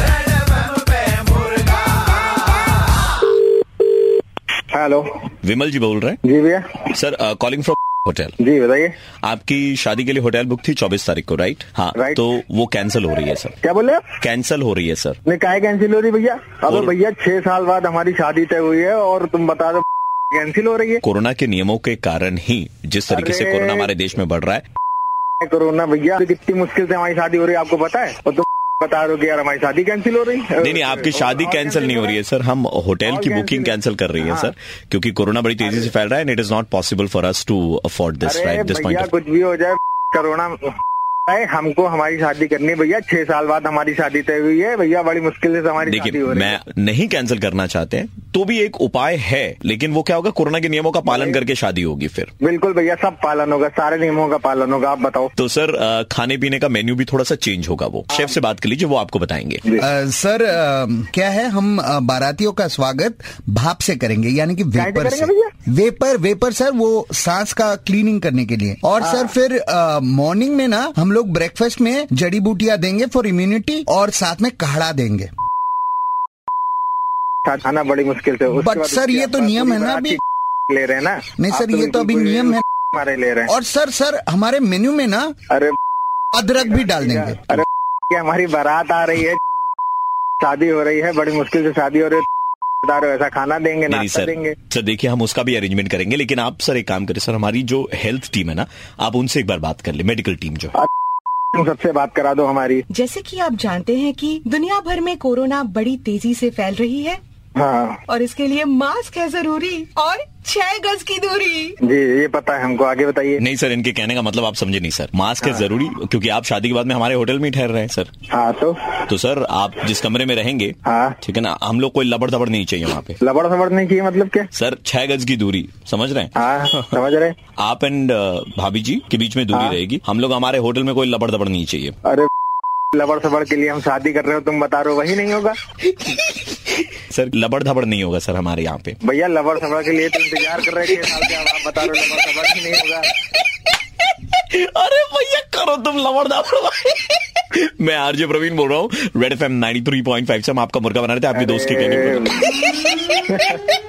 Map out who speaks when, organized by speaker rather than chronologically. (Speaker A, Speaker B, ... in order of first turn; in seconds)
Speaker A: 4.7-5.1, 6.2-6.8, 8.4-8.9, 12.0-12.2, 13.6-14.1, 15.3-21.0, 23.1-23.9, 25.4-32.2, 33.0-34.5, 35.6-35.9, 38.2-40.7, 41.3-46.6, 51.1-51.4, 52.4-55.3, 64.8-65.5, 69.0-69.3, 77.5-83.5, 86.6-89.4, 90.4-92.3, 92.8-94.5, 101.5-102.8, 107.6-108.0, 111.8-113.4, 118.3-118.8, 120.8-121.2, 123.2-124.5, 126.4-127.3, 132.9-135.6, 139.0-143.1, 151.3-152.6, 153.3-153.6
Speaker B: 5.4-6.2, 6.9-8.4, 9.2-13.6, 14.2-15.2, 16.7-16.9, 21.0-24.6, 30.6-39.1, 45.8-52.3, 55.4-59.6, 93.9-100.8, 113.4-118.1, 119.1-123.2, 124.5-126.3, 127.6-131.9, 137.1-139.0, 144.3-152.5
Speaker C: 59.8-75.3, 78.5-80.2, 81.4-82.6, 83.5-85.3, 86.3-87.5
Speaker D: 102.9-107.2, 108.1-111.8